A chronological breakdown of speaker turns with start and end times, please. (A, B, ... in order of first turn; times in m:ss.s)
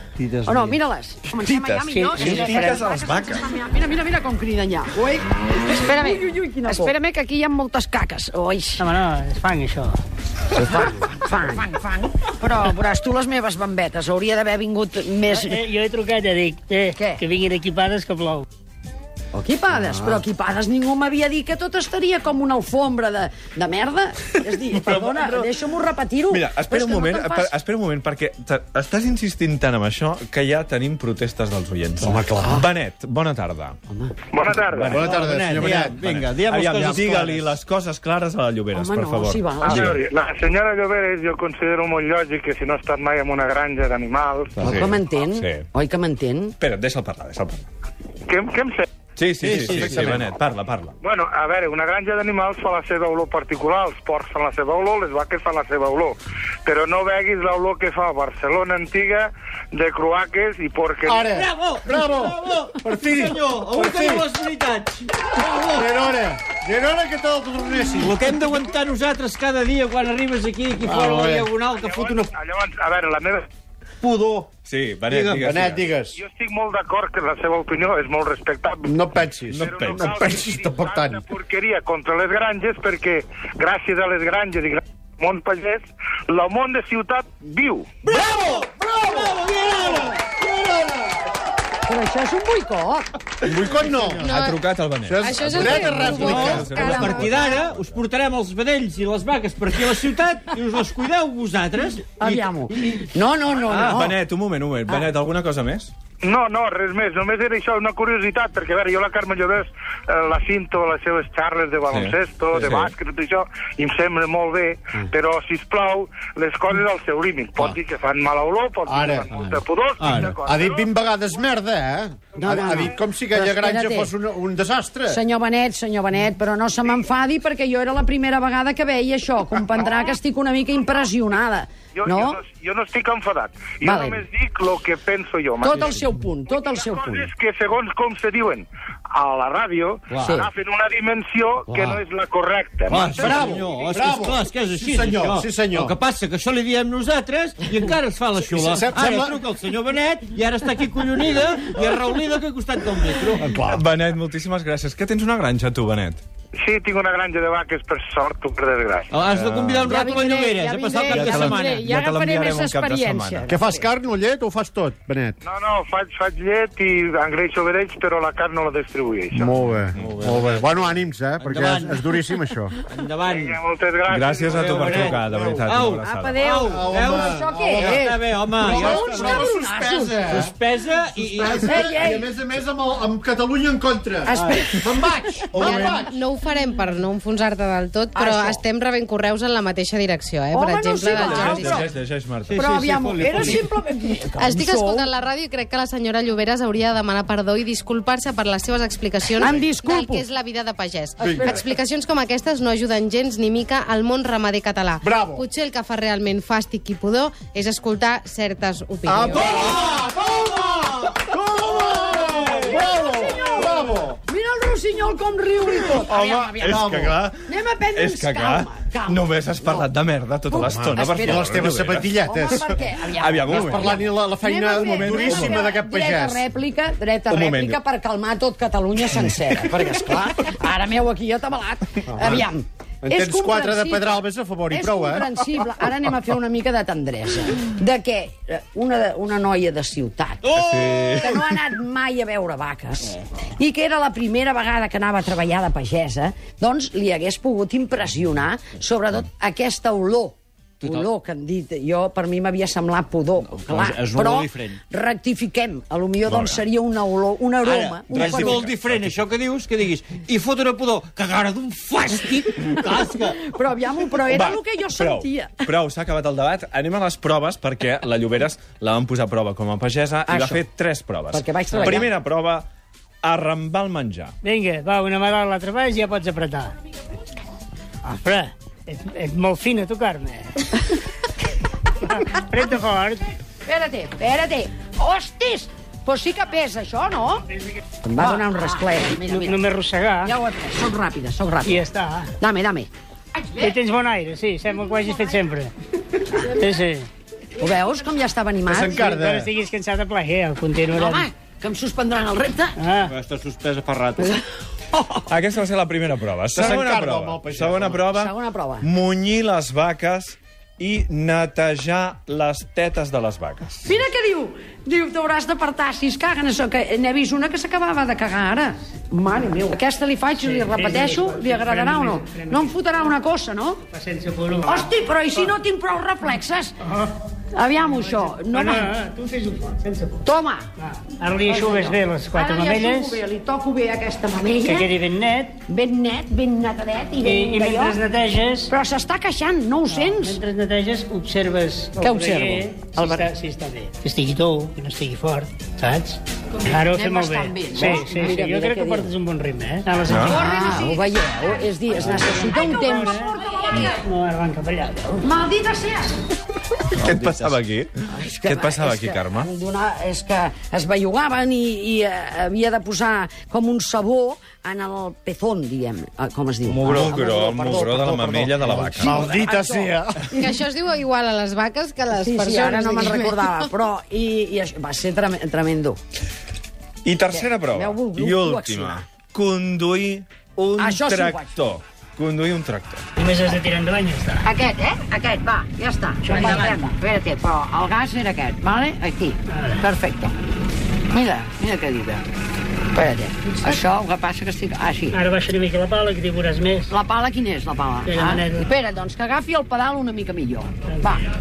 0:00.2-0:00.8 A
0:00.4-0:08.9 B
0:01.4-0:03.5 C
0:01.9-0:02.8 D
0:08.8-0:10.0 D
0:10.5-0:15.6 B
0:15.3-0:18.5 D
0:16.9-0:17.2 B
0:19.3-0:27.5 B
0:24.9-0:25.5 C
0:26.3-0:33.8 C
0:32.0-0:32.6 E
0:32.4-0:32.7 B
0:33.9-0:34.1 B
0:34.3-0:34.7 F
0:34.6-0:35.1 C
0:34.8-0:36.0 E
0:34.9-0:37.6 A
0:35.9-0:40.0 C
0:38.7-0:40.0 B
0:39.8-0:44.5 F
0:44.6-0:45.0 A
0:44.6-0:46.6 B
0:44.6-0:45.6 C
0:46.6-0:47.7 C
0:48.3-0:48.8 F
0:49.2-0:51.0 C
0:49.4-0:50.4 A
0:51.0-1:01.2 F
1:01.0-1:04.2 E
1:01.3-1:05.9 A
1:05.7-1:08.2 E
1:08.0-1:12.3 A
1:10.8-1:11.5 E
1:11.9-1:13.5 F
1:14.0-1:14.5 E
1:14.6-1:15.8 C
1:15.1-1:15.8 A
1:15.3-1:16.2 E
1:16.2-1:18.8 F
1:18.8-1:21.2 E
1:19.5-1:20.1 C
1:19.9-1:27.9 F
1:28.0-1:29.4 E
1:28.1-1:30.5 A
1:30.2-1:31.0 E
1:31.8-1:33.1 B
1:33.4-1:34.3 E
1:34.2-1:34.6 G
1:34.3-1:38.0 C
1:35.0-1:37.0 E
1:35.2-1:37.4 G
1:36.1-1:43.0 A
1:42.2-1:44.2 B
1:43.6-1:45.9 C
1:46.2-2:00.0 F
1:51.9-1:52.9 C
1:58.8-1:59.4 E
1:59.3-2:00.4 A
2:00.0-2:05.2 E
2:02.4-2:04.1 B
2:05.1-2:12.4 B
2:12.0-2:15.8 F
2:13.8-2:14.3 B
2:15.6-2:17.3 B
2:15.7-2:16.0 A
2:17.0-2:22.9 F
2:20.1-2:20.5 A
2:20.2-2:20.5 B
2:21.7-2:22.0 B
2:22.9-2:26.0 E
2:22.9-2:33.6 A
2:28.4-2:29.4 E
2:33.4-2:33.8 E
2:33.6-2:36.2 C
2:36.6-2:39.1 F
2:39.1-2:42.0 A
2:39.2-2:40.0 C
2:39.9-2:40.3 B
2:40.0-2:43.4 G
2:41.0-2:43.5 C
2:43.5-2:45.4 E
2:45.4-2:49.4 F
2:49.3-2:52.8 E
2:50.0-2:50.9 A
2:51.4-2:52.2 A
2:52.9-2:53.6 A
2:53.6-2:54.2 F
2:54.0-2:56.4 C
2:54.4-2:59.5 A
2:54.8-2:55.8 E
2:56.0-3:00.4 B
2:56.6-2:58.0 E
2:58.6-3:00.5 E
3:00.3-3:02.1 A
3:01.2-3:06.2 E
3:01.6-3:02.3 B
3:04.2-3:05.8 B
3:04.4-3:04.6 A
3:05.6-3:11.8 G
3:08.1-3:08.6 B
3:10.5-3:11.9 B
3:11.1-3:12.6 C
3:12.4-3:13.7 A
3:12.6-3:15.1 B
3:14.4-3:29.7 G
3:19.3-3:20.2 B
3:21.2-3:21.6 E
3:21.2-3:21.6 B
3:25.0-3:25.4 E
3:29.0-3:34.2 E
3:29.7-3:30.0 A
3:31.6-3:36.9 B
3:32.2-3:32.6 A
3:36.0-3:37.4 C
3:36.6-3:37.2 E
3:37.4-3:39.9 B
3:37.9-3:43.9 C
3:40.5-4:18.6 B
3:40.6-3:42.7 E
3:43.5-3:46.4 E
3:44.8-3:45.7 C
3:47.3-3:47.8 C
3:52.1-3:52.5 E
3:53.0-3:55.3 E
4:00.4-4:01.5 A
4:00.5-4:01.3 C
4:10.8-4:11.1 A
4:13.6-4:14.8 A
4:16.3-4:16.6 C
4:17.6-4:23.4 A
4:18.1-4:19.2 C
4:23.2-4:25.7 B
4:24.3-4:32.7 C
4:30.3-4:30.6 B
4:31.3-4:32.1 B
4:33.2-4:34.3 C
4:34.4-4:36.7 D
4:38.0-4:40.9 D
4:42.0-4:43.3 D
4:43.6-4:47.4 B
4:48.0-4:49.6 B
4:49.1-4:50.3 D
4:50.2-4:51.8 B
4:51.6-4:52.3 D
4:52.4-4:52.9 B
4:53.4-4:53.7 B
4:53.5-4:55.7 D
4:56.4-4:57.1 D
4:57.6-4:59.0 B
4:58.7-4:59.5 E
4:58.9-5:01.3 D
5:00.9-5:02.8 B
5:02.8-5:03.1 D
5:03.0-5:04.4 A
5:04.9-5:05.2 B
5:05.3-5:13.9 C
5:06.5-5:08.0 E
5:08.1-5:08.9 B
5:13.8-5:23.8 B
5:20.3-5:22.8 D
5:23.9-5:25.5 D
5:24.6-5:26.8 B
5:26.8-5:27.1 D
5:27.5-5:28.9 B
5:27.8-5:30.2 D
5:30.2-5:30.7 B
5:30.8-5:33.2 D
5:31.5-5:34.9 B
5:34.6-5:35.6 D
5:35.7-5:38.0 B
5:37.2-5:38.7 D
5:38.7-5:40.4 B
5:39.9-5:50.7 D
5:42.0-5:43.3 B
5:46.6-5:49.1 B
5:50.0-5:50.4 C
5:50.1-5:54.0 B
5:51.9-5:55.2 D
5:55.2-5:56.2 B
5:56.9-5:57.6 A
5:57.0-5:57.9 C
5:58.1-6:10.0 B
5:58.4-5:59.5 C
6:06.7-6:07.7 A
6:06.8-6:09.2 C
6:09.0-6:10.5 E
6:10.3-6:13.6 G
6:12.1-6:16.0 B
6:17.0-6:23.0 C
6:17.3-6:19.0 B
6:20.8-6:21.5 B
6:23.2-6:24.5 D
6:24.4-6:30.3 B
6:26.2-6:26.9 D
6:29.5-6:29.8 D
6:31.1-6:32.2 B
6:32.9-6:35.2 B
6:35.1-6:36.9 D
6:36.9-6:41.3 B
6:38.0-6:38.6 D